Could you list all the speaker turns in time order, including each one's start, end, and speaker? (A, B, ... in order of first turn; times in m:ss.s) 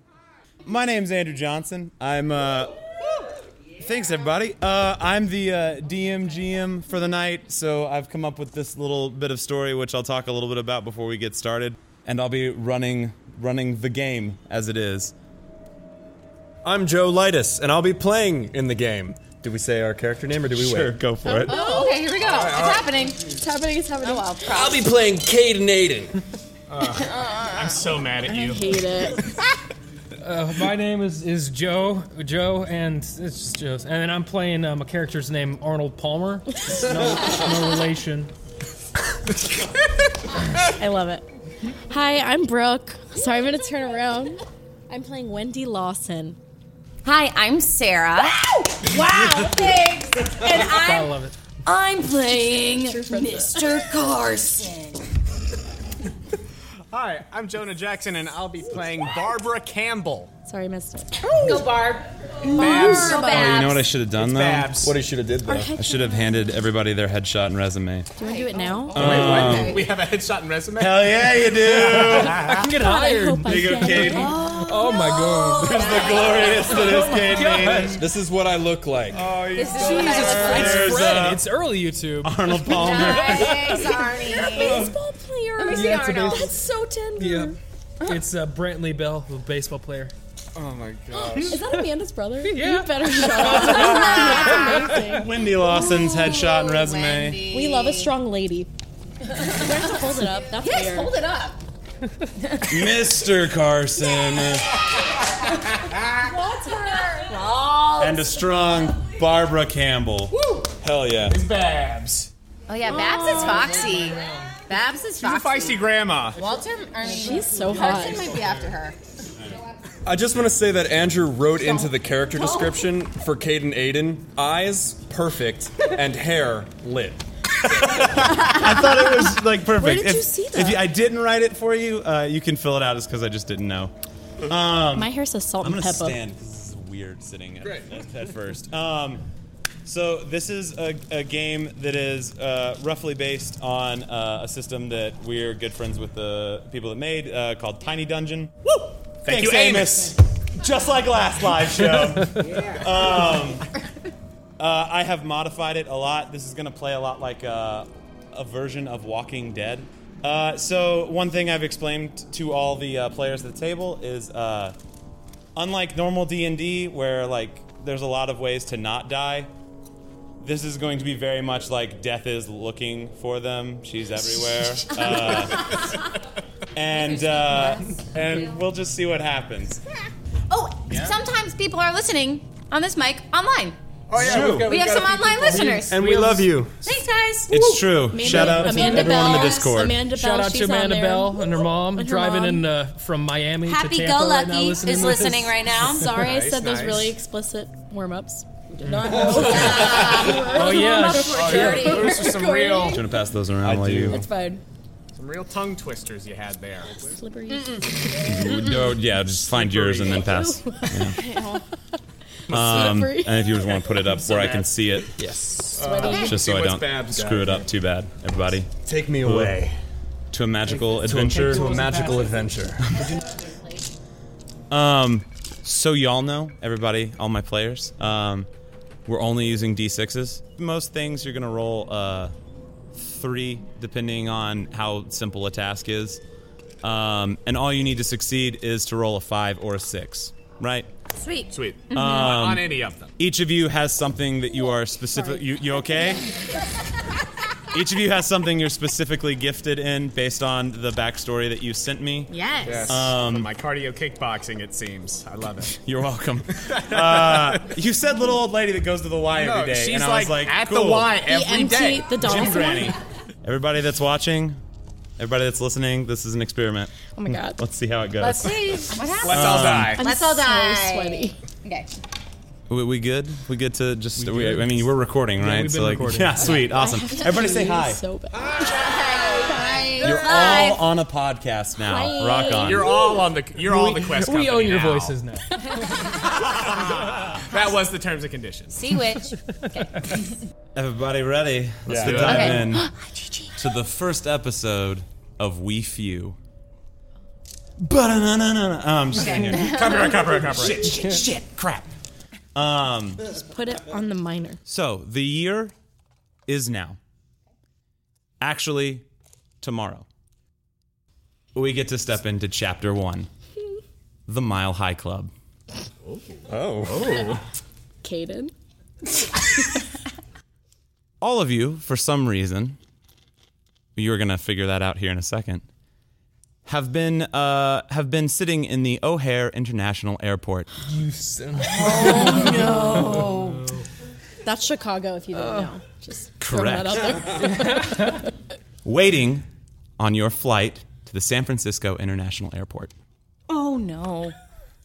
0:00.6-0:02.7 A
0:03.8-0:15.1 A
0:16.6-0:21.0 B
0:20.5-0:21.6 A
0:21.2-0:22.1 C
0:21.3-0:23.4 D
0:22.2-0:23.0 B
0:23.2-0:24.5 C
0:24.0-0:24.8 D
0:24.4-0:26.2 B
0:26.7-0:28.6 E
0:27.1-0:27.5 D
0:28.2-0:29.3 C
0:30.2-0:38.3 F
0:40.6-0:41.2 C
0:41.9-0:46.4 C
0:47.0-0:55.0 D
0:50.5-0:51.3 F
0:52.8-0:53.8 C
0:56.9-1:00.3 E
1:00.4-1:01.2 C
1:01.2-1:03.9 D
1:02.4-1:03.7 C
1:02.5-1:03.2 E
1:03.0-1:04.8 A
1:04.1-1:05.0 E
1:04.8-1:05.7 B
1:05.4-1:06.4 C
1:05.8-1:08.1 A
1:08.2-1:09.2 C
1:08.2-1:09.9 D
1:08.9-1:12.2 E
1:08.9-1:09.9 A
1:10.8-1:12.6 A
1:12.0-1:16.0 F
1:12.2-1:14.4 C
1:13.4-1:14.5 A
1:14.2-1:17.0 D
1:15.6-1:18.0 A
1:16.6-1:18.0 F
1:17.9-1:19.2 B
1:19.1-1:21.6 A
1:19.5-1:21.1 D
1:19.7-1:23.9 F
1:22.2-1:23.8 A
1:22.6-1:24.9 D
1:24.3-1:27.6 C
1:24.5-1:24.9 F
1:25.6-1:26.5 D
1:25.7-1:26.5 F
1:27.2-1:30.1 F
1:30.6-1:31.5 E
1:31.5-1:35.3 C
1:32.4-1:35.1 F
1:34.2-1:34.6 D
1:35.0-1:37.4 A
1:35.6-1:38.1 D
1:37.5-1:38.7 C
1:39.3-1:41.1 C
1:39.3-1:41.6 D
1:42.6-1:44.7 A
1:46.2-1:47.3 C
1:46.3-1:48.4 D
1:48.0-1:50.4 A
1:50.3-1:50.7 E
1:50.8-1:51.4 B
1:51.2-1:52.3 E
1:52.7-1:59.0 D
1:52.8-1:53.9 C
1:53.3-1:54.0 F
1:55.2-1:56.4 E
1:57.1-1:58.4 C
2:00.0-2:07.2 B
2:01.7-2:02.9 D
2:07.6-2:19.2 A
2:08.2-2:10.8 C
2:15.0-2:16.2 C
2:17.6-2:17.9 E
2:19.8-2:28.6 A
2:28.6-2:30.2 E
2:29.2-2:33.7 A
2:34.6-2:44.8 A
2:45.6-2:49.5 A
2:50.4-2:55.9 A
2:55.0-2:55.8 D
2:56.7-2:59.8 A
2:56.9-2:58.5 D
3:00.5-3:03.8 D
3:00.9-3:01.2 A
3:04.1-3:05.9 E
3:04.1-3:04.8 A
3:04.5-3:06.1 D
3:05.7-3:06.4 F
3:05.9-3:06.9 B
3:06.8-3:08.0 D
3:07.5-3:10.0 A
3:08.1-3:12.6 C
3:08.2-3:09.2 F
3:09.1-3:09.6 D
3:10.0-3:15.9 F
3:13.6-3:16.1 D
3:15.9-3:23.0 C
3:16.2-3:17.1 E
3:18.8-3:22.1 F
3:19.5-3:22.5 D
3:21.3-3:23.0 E
3:22.9-3:24.2 A
3:23.6-3:24.3 B
3:24.1-3:24.6 C
3:25.1-3:27.1 E
3:27.0-3:27.8 C
3:28.2-3:31.2 A
3:29.4-3:30.3 E
3:30.1-3:31.4 C
3:31.2-3:31.6 D
3:32.5-3:35.1 A
3:32.5-3:32.8 B
3:32.6-3:33.5 C
3:34.2-3:34.7 E
3:35.2-3:36.0 F
3:35.7-3:37.5 E
3:35.8-3:36.4 C
3:36.1-3:39.6 A
3:37.1-3:37.6 B
3:38.8-3:39.7 B
3:40.3-3:41.8 A
3:41.0-3:42.5 F
3:41.0-3:43.2 B
3:44.7-3:48.5 A
3:49.0-3:52.3 A
3:52.9-3:56.2 A
3:56.8-4:00.9 A
4:01.2-4:02.4 D
4:01.5-4:03.1 E
4:01.9-4:06.3 A
4:07.7-4:13.5 A
4:12.3-4:13.0 D
4:12.6-4:15.8 E
4:15.8-4:21.2 A
4:16.6-4:17.6 E
4:19.3-4:22.3 E
4:21.3-4:22.9 C
4:22.1-4:24.6 A
4:25.2-4:30.0 A
4:27.1-4:27.6 C
4:28.2-4:31.9 D
4:29.0-4:30.0 E
4:30.0-4:31.4 C
4:32.7-4:38.0 A
4:34.2-4:36.8 F
4:36.5-4:39.0 C
4:38.7-4:40.8 D
4:40.0-4:43.0 A
4:41.8-4:43.2 C
4:42.6-4:45.2 E
4:43.6-4:46.0 F
4:47.4-4:48.9 E
4:48.7-4:50.2 D
4:50.7-4:52.9 A
4:51.8-4:52.7 E
4:52.2-4:52.8 D
4:53.5-4:56.4 A
4:57.8-5:01.9 A
4:59.1-5:00.0 D
4:59.4-5:01.0 E
5:02.5-5:03.2 A
5:03.3-5:04.6 C
5:04.6-5:05.7 A
5:06.5-5:07.0 A
5:08.4-5:09.0 A
5:09.6-5:10.1 A
5:11.5-5:13.3 A
5:14.3-5:15.3 A
5:16.5-5:17.4 B
5:18.0-5:18.5 C
5:21.2-5:22.8 A
5:24.0-5:25.6 A
5:26.6-5:30.7 A
5:30.8-5:33.8 F
5:31.6-5:33.7 D
5:34.4-5:38.3 C
5:35.3-5:35.7 F
5:36.4-5:37.5 A
5:38.8-5:39.4 A
5:40.0-5:42.9 A
5:43.5-5:44.3 D